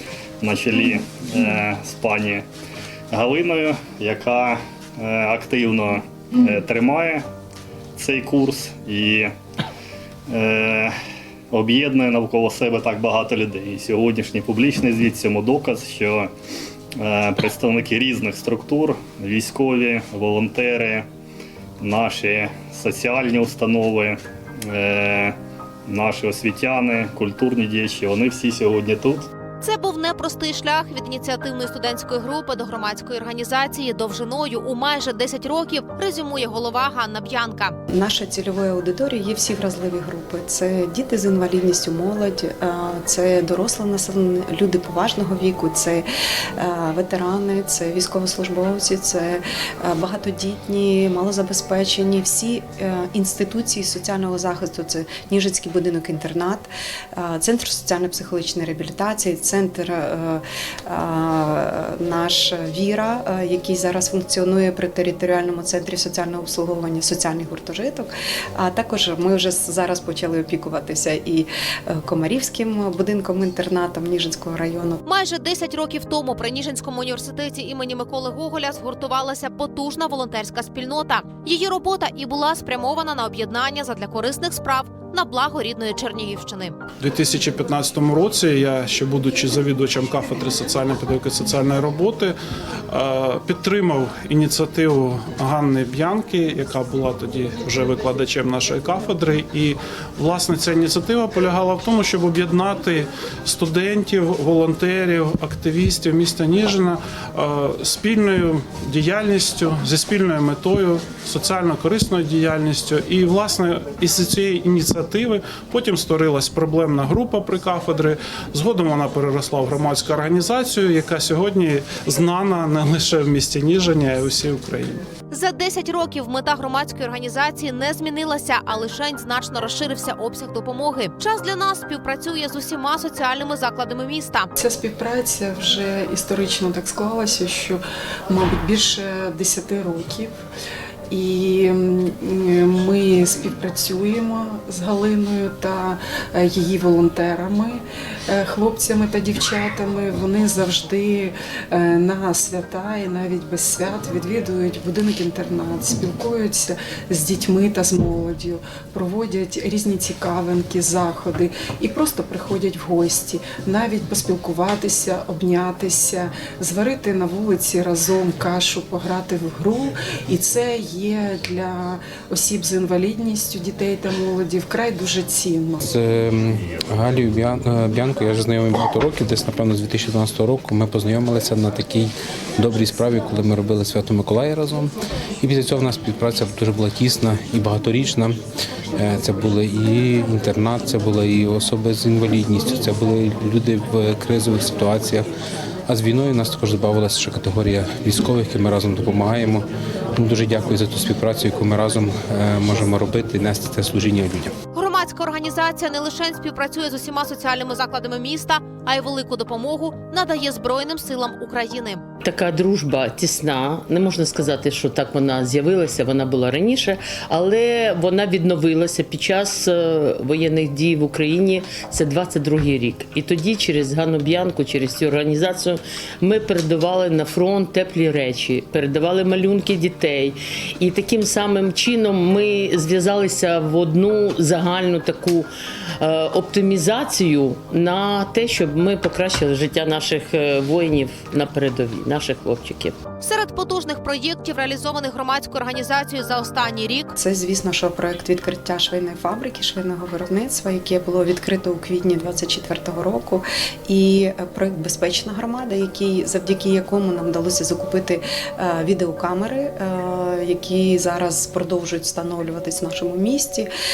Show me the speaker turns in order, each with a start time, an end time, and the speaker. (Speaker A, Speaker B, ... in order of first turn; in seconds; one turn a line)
Speaker A: 0.4-2.5
Speaker A: 3.1-7.2
Speaker A: 8.0-9.3
Speaker A: 10.3-10.9
Speaker A: 11.5-16.3
Speaker A: 16.9-21.0
Speaker A: 21.8-24.2
Speaker A: 24.7-25.4
Speaker A: 25.9-29.3
Speaker B: 29.6-37.8
Speaker C: 37.9-46.0
Speaker C: 46.6-75.0
Speaker B: 75.0-86.7
Speaker D: 87.0-92.3
Speaker D: 92.9-125.0
Speaker B: 125.3-134.5
Speaker E: 134.6-140.3
Speaker E: 141.1-175.8
Speaker F: 175.8-188.4
Speaker F: 188.9-195.3
Speaker F: 195.9-204.5
Speaker B: 204.7-212.0
Speaker G: 212.2-235.5
Speaker G: 236.0-242.9
Speaker B: 243.2-247.1
Speaker C: 247.2-263.7